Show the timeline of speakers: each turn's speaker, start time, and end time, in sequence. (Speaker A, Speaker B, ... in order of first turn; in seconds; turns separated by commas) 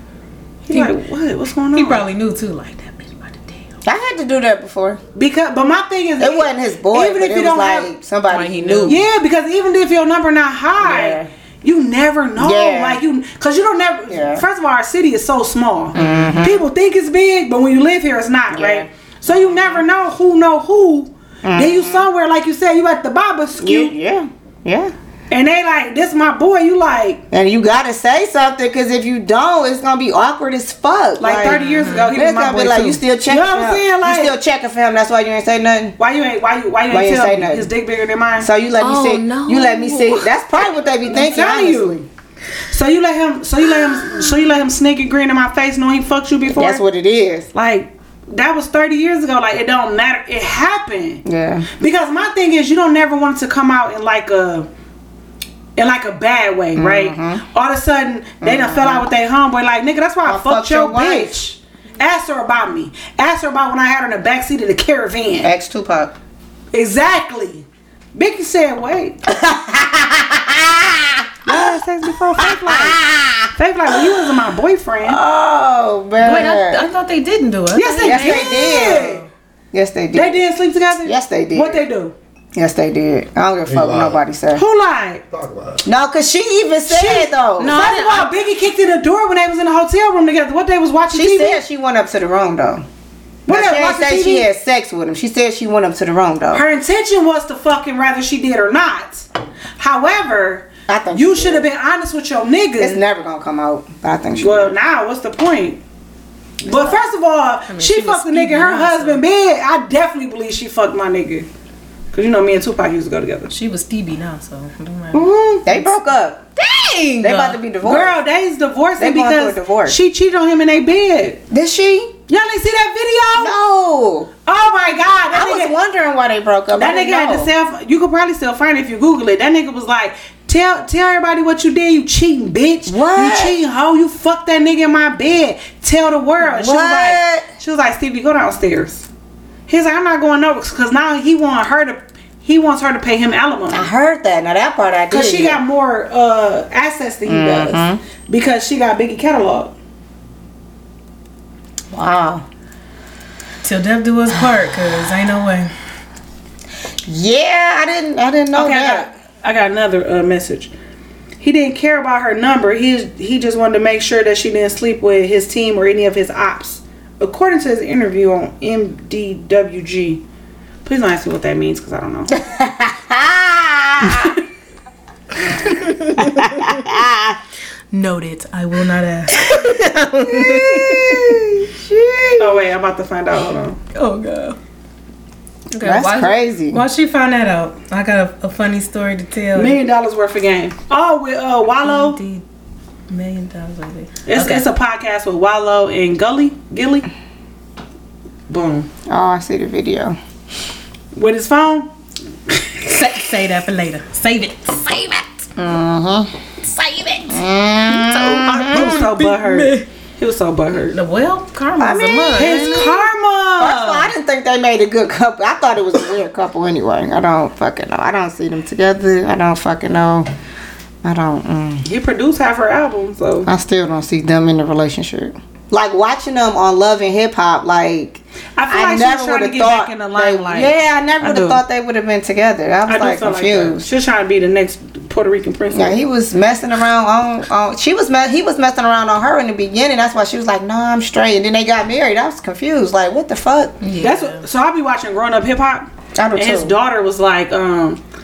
Speaker A: 0.7-2.0, Speaker B: 1.8-3.6, Speaker C: 3.9-5.0, Speaker A: 5.2-7.9, Speaker C: 6.2-9.0, Speaker B: 8.3-9.0, Speaker A: 8.9-23.9, Speaker C: 10.8-11.3, Speaker C: 12.4-13.0, Speaker C: 14.1-14.4, Speaker B: 15.9-16.5, Speaker C: 15.9-16.6, Speaker C: 18.5-18.9, Speaker C: 21.4-22.1, Speaker C: 23.6-24.9, Speaker A: 25.3-27.2, Speaker C: 27.3-36.0, Speaker A: 31.2-34.4, Speaker B: 31.5-32.2, Speaker A: 36.0-38.5, Speaker C: 36.9-37.7, Speaker C: 38.4-42.1, Speaker B: 38.8-40.3, Speaker A: 41.1-42.0, Speaker A: 42.7-46.8, Speaker C: 46.5-47.5, Speaker A: 47.5-51.2, Speaker C: 51.2-51.7, Speaker A: 51.8-54.7, Speaker A: 55.8-65.5, Speaker C: 56.8-57.4, Speaker C: 58.4-59.1, Speaker C: 60.2-61.4, Speaker C: 65.4-66.2, Speaker A: 66.7-69.2, Speaker C: 69.3-71.7, Speaker A: 71.5-73.0, Speaker C: 72.4-74.3, Speaker A: 73.5-75.2, Speaker C: 75.0-76.9, Speaker B: 76.2-79.3, Speaker A: 77.8-79.2, Speaker C: 78.0-79.2, Speaker C: 79.7-80.4, Speaker A: 80.1-82.2, Speaker C: 81.0-81.8, Speaker C: 82.5-84.6, Speaker A: 84.5-85.2, Speaker C: 85.8-87.9, Speaker A: 86.9-91.6, Speaker B: 87.7-88.3, Speaker C: 91.1-92.8, Speaker A: 93.5-94.5, Speaker C: 93.5-96.6, Speaker A: 96.5-99.3, Speaker A: 99.8-103.0, Speaker C: 100.9-101.7, Speaker C: 102.8-104.8, Speaker A: 104.4-105.8, Speaker A: 106.6-111.5, Speaker B: 107.7-109.2, Speaker A: 112.1-113.5, Speaker B: 113.5-115.9, Speaker C: 115.1-116.4, Speaker B: 116.6-117.6, Speaker C: 117.2-118.2, Speaker A: 117.8-121.4, Speaker C: 119.0-120.0, Speaker C: 121.5-122.1, Speaker A: 122.3-123.6, Speaker C: 123.4-124.3, Speaker A: 124.5-125.7, Speaker C: 125.3-127.5, Speaker A: 126.7-139.1, Speaker C: 132.9-133.6, Speaker C: 136.4-137.5, Speaker A: 139.7-143.9, Speaker C: 143.7-145.6, Speaker A: 145.1-149.7, Speaker C: 147.3-148.0, Speaker C: 151.9-152.4, Speaker B: 153.6-155.7, Speaker C: 157.1-159.1, Speaker A: 158.5-160.7, Speaker A: 161.4-170.2, Speaker A: 170.8-172.4, Speaker C: 172.3-174.3, Speaker A: 175.4-175.9, Speaker B: 175.7-176.9, Speaker C: 176.2-177.4, Speaker B: 177.9-181.4, Speaker C: 180.3-182.7, Speaker A: 182.4-183.8, Speaker B: 183.9-184.6, Speaker B: 185.7-189.8, Speaker C: 185.8-186.8, Speaker A: 189.6-192.2, Speaker B: 191.8-192.4, Speaker B: 193.1-194.7, Speaker A: 194.3-197.1, Speaker A: 198.5-198.9, Speaker C: 199.1-200.2, Speaker A: 201.2-201.9, Speaker B: 202.9-205.5, Speaker C: 205.6-206.3, Speaker B: 206.6-209.9, Speaker C: 207.3-209.0, Speaker A: 208.6-211.0, Speaker B: 210.9-213.0, Speaker C: 211.8-213.0, Speaker A: 212.3-214.1, Speaker C: 213.6-220.3, Speaker C: 221.0-221.8, Speaker A: 221.8-223.5, Speaker C: 223.4-233.9, Speaker A: 228.6-231.6, Speaker A: 232.9-236.0, Speaker C: 235.7-243.8, Speaker B: 243.8-244.4, Speaker A: 244.0-248.0, Speaker C: 246.2-246.8